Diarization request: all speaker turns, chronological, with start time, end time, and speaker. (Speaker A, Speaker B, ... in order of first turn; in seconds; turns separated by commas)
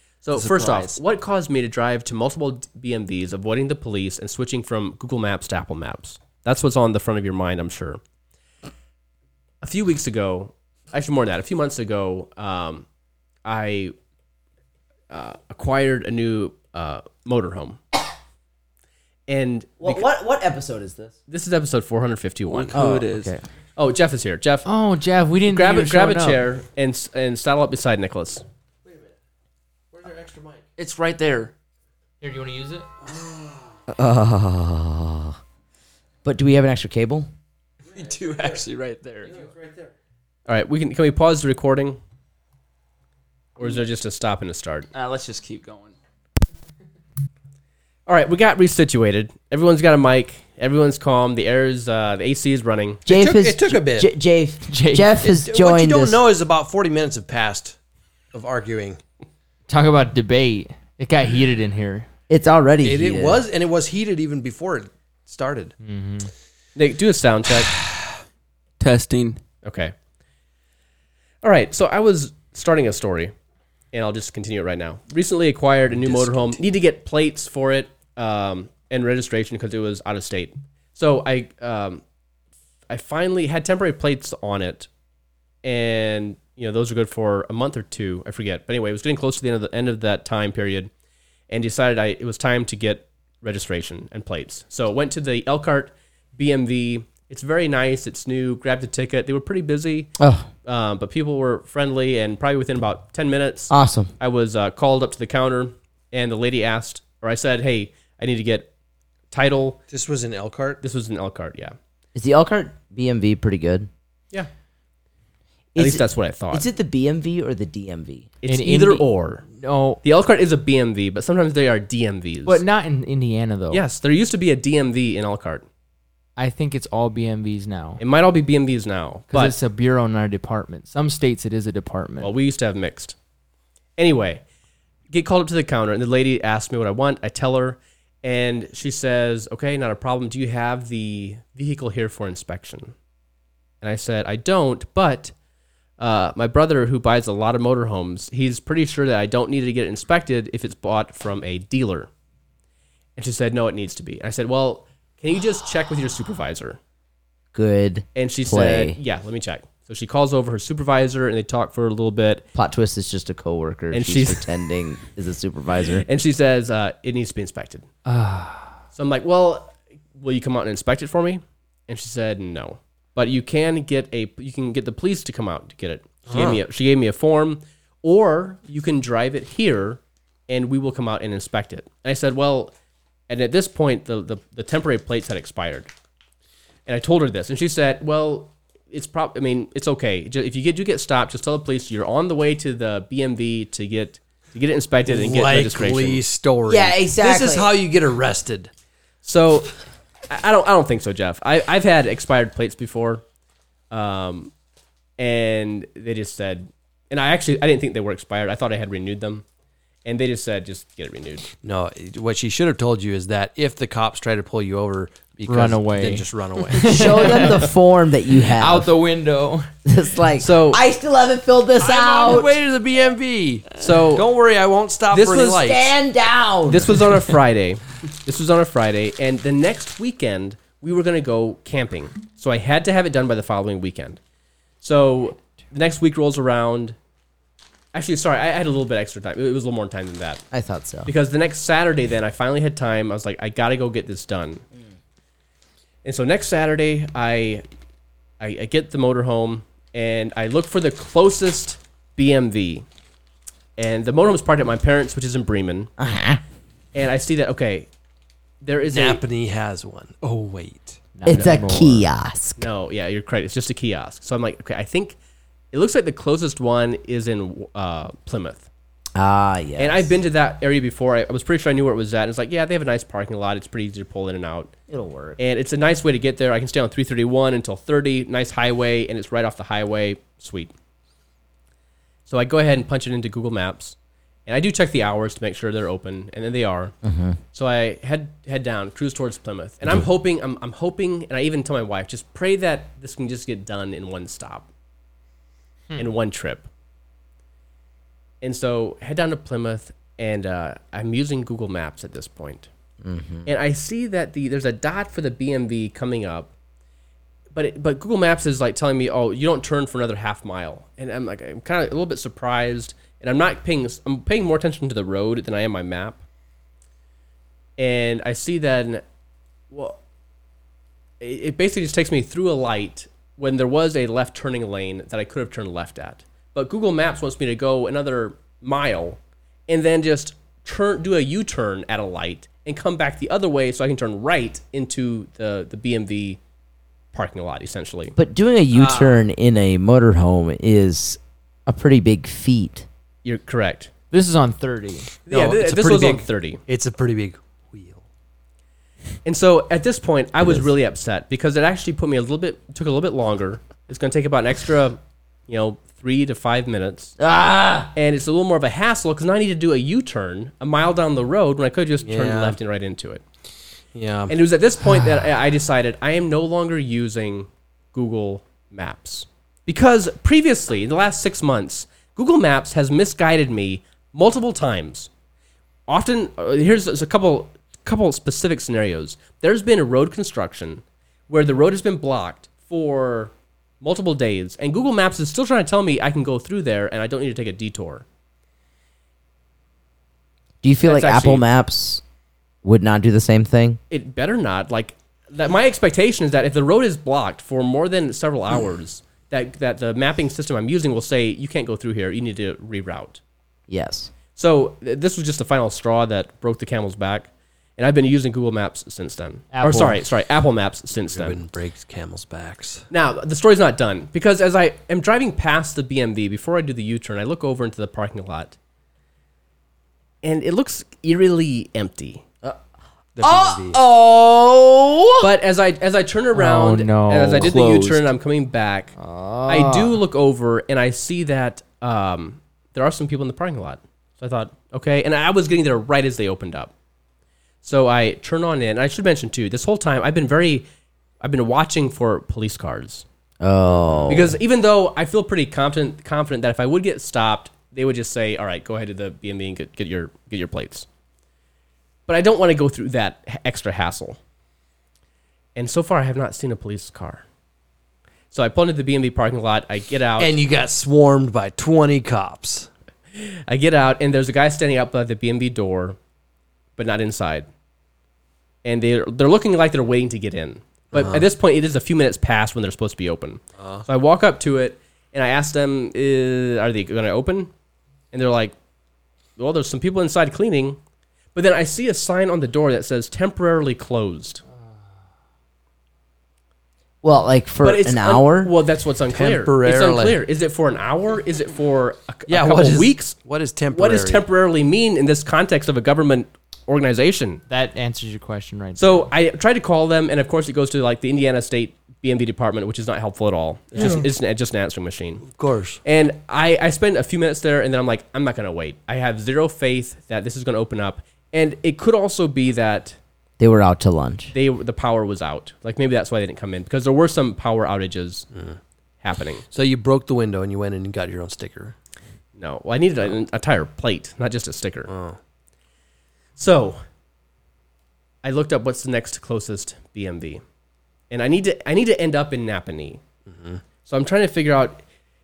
Speaker A: 0.2-8.0, Speaker B: 0.3-1.0, Speaker A: 9.6-12.8, Speaker A: 13.4-13.9, Speaker A: 15.1-17.8, Speaker A: 19.3-20.1, Speaker C: 19.8-21.1, Speaker A: 21.3-22.8, Speaker B: 22.4-23.4, Speaker C: 22.7-23.4, Speaker A: 23.8-24.7, Speaker D: 24.6-26.4, Speaker A: 25.5-28.4, Speaker E: 29.9-30.7, Speaker B: 30.8-31.5, Speaker D: 32.2-32.9, Speaker E: 33.0-33.7, Speaker C: 33.9-35.4, Speaker C: 36.2-37.3, Speaker B: 37.9-39.3, Speaker E: 38.0-38.6, Speaker E: 39.2-39.9, Speaker A: 40.5-42.0, Speaker A: 43.6-44.9, Speaker B: 44.9-45.9, Speaker A: 48.0-53.0, Speaker E: 53.0-54.1, Speaker C: 53.1-56.2, Speaker D: 54.7-55.2, Speaker E: 55.2-57.8, Speaker E: 58.3-59.0, Speaker D: 59.7-62.1, Speaker C: 62.3-63.4, Speaker E: 62.8-65.7, Speaker D: 65.8-66.3, Speaker A: 66.8-67.7, Speaker B: 68.8-69.4, Speaker A: 69.6-69.9, Speaker A: 71.4-73.3, Speaker A: 73.9-82.0, Speaker E: 76.0-76.6, Speaker A: 82.9-84.9, Speaker A: 85.6-90.9, Speaker A: 91.5-100.1, Speaker C: 100.2-100.5, Speaker A: 100.6-108.7, Speaker C: 103.7-104.1, Speaker A: 109.3-109.8, Speaker E: 109.9-110.8, Speaker A: 110.8-111.7, Speaker C: 112.1-113.9, Speaker C: 115.7-118.3, Speaker A: 115.8-116.7, Speaker A: 118.4-119.4, Speaker D: 118.5-120.0, Speaker A: 120.0-122.6, Speaker D: 122.5-123.8, Speaker A: 123.7-125.6, Speaker D: 126.4-128.0, Speaker A: 128.0-129.5, Speaker D: 129.3-132.3, Speaker A: 132.2-133.1, Speaker A: 134.0-134.4, Speaker A: 135.1-142.9, Speaker A: 143.8-145.3, Speaker A: 146.0-152.1, Speaker A: 153.2-156.8, Speaker C: 157.5-159.0, Speaker A: 158.1-162.4, Speaker C: 162.5-166.1, Speaker A: 163.9-164.5, Speaker A: 166.1-167.8, Speaker D: 168.1-168.7, Speaker A: 168.9-182.7, Speaker E: 176.3-176.6, Speaker A: 183.3-185.9, Speaker A: 186.8-196.2, Speaker E: 195.1-198.7, Speaker C: 196.7-197.7, Speaker A: 199.2-199.7, Speaker A: 200.3-203.2, Speaker A: 203.9-204.5, Speaker A: 205.2-209.4, Speaker A: 210.0-211.5, Speaker E: 211.6-217.4, Speaker D: 215.4-217.7, Speaker C: 216.8-218.9, Speaker D: 218.5-219.7, Speaker C: 219.8-222.5, Speaker A: 220.4-220.8, Speaker E: 221.8-225.9, Speaker A: 223.8-224.3, Speaker A: 225.1-225.6, Speaker C: 225.5-227.0, Speaker A: 226.7-234.2, Speaker A: 234.8-236.9, Speaker A: 237.9-240.4, Speaker C: 240.5-241.1, Speaker A: 241.1-244.6, Speaker A: 246.0-247.6, Speaker A: 248.4-252.8, Speaker A: 253.8-255.9, Speaker C: 256.0-256.4, Speaker A: 256.9-257.9, Speaker A: 258.6-259.2, Speaker E: 258.9-261.0, Speaker D: 261.1-262.1, Speaker C: 261.2-262.7, Speaker A: 261.3-261.6, Speaker A: 262.6-265.2, Speaker A: 265.7-268.7, Speaker C: 269.1-270.1, Speaker A: 269.8-274.7, Speaker C: 274.9-275.4, Speaker A: 275.4-280.7, Speaker A: 282.3-283.9, Speaker A: 284.5-286.9, Speaker C: 287.0-287.4, Speaker A: 287.5-294.7, Speaker A: 295.9-296.7, Speaker A: 298.4-302.7, Speaker C: 303.0-303.5, Speaker A: 303.4-306.5, Speaker A: 307.5-316.2, Speaker A: 317.8-319.0, Speaker A: 319.7-320.0, Speaker A: 321.2-336.4, Speaker A: 337.1-338.1, Speaker C: 338.1-342.9, Speaker A: 343.2-343.9, Speaker D: 344.1-345.1, Speaker A: 345.3-346.6, Speaker E: 345.3-348.0, Speaker A: 349.2-357.1, Speaker C: 357.2-357.9, Speaker A: 357.9-363.2, Speaker E: 362.0-362.6, Speaker E: 363.9-364.3, Speaker A: 364.3-375.1, Speaker A: 375.9-388.0, Speaker C: 390.6-392.0, Speaker A: 390.8-391.4, Speaker C: 392.6-393.8, Speaker A: 393.9-403.2, Speaker C: 403.7-404.1, Speaker A: 404.4-411.4, Speaker D: 409.5-410.0, Speaker E: 411.1-412.8, Speaker A: 412.9-418.5, Speaker A: 420.2-422.2, Speaker E: 423.1-423.8, Speaker C: 423.2-425.3, Speaker A: 425.2-428.9, Speaker D: 426.3-428.0, Speaker D: 429.0-430.0, Speaker A: 429.5-436.7, Speaker A: 437.6-440.6, Speaker A: 441.2-443.0, Speaker C: 443.4-444.4, Speaker A: 444.1-450.9, Speaker A: 452.1-454.2, Speaker A: 455.6-457.2, Speaker A: 458.3-460.4, Speaker E: 460.2-462.7, Speaker A: 463.2-466.0, Speaker A: 466.8-467.5, Speaker A: 468.6-477.5, Speaker E: 470.9-471.2, Speaker E: 473.6-473.8, Speaker A: 478.1-478.5, Speaker A: 479.4-480.8, Speaker A: 481.3-484.4, Speaker C: 487.0-488.5, Speaker A: 487.6-493.2, Speaker E: 489.1-490.2, Speaker E: 492.3-494.2, Speaker A: 493.7-497.4, Speaker D: 497.5-499.1, Speaker A: 498.8-505.2, Speaker E: 503.7-504.1, Speaker E: 505.2-505.8, Speaker A: 505.8-513.0, Speaker C: 513.4-514.3, Speaker A: 514.3-518.3, Speaker E: 518.3-518.6, Speaker A: 519.0-519.4, Speaker E: 519.5-521.7, Speaker A: 522.4-524.9, Speaker E: 524.9-525.2, Speaker A: 526.4-526.8, Speaker A: 528.2-530.4, Speaker A: 531.1-533.0, Speaker E: 533.3-533.6, Speaker A: 533.8-534.8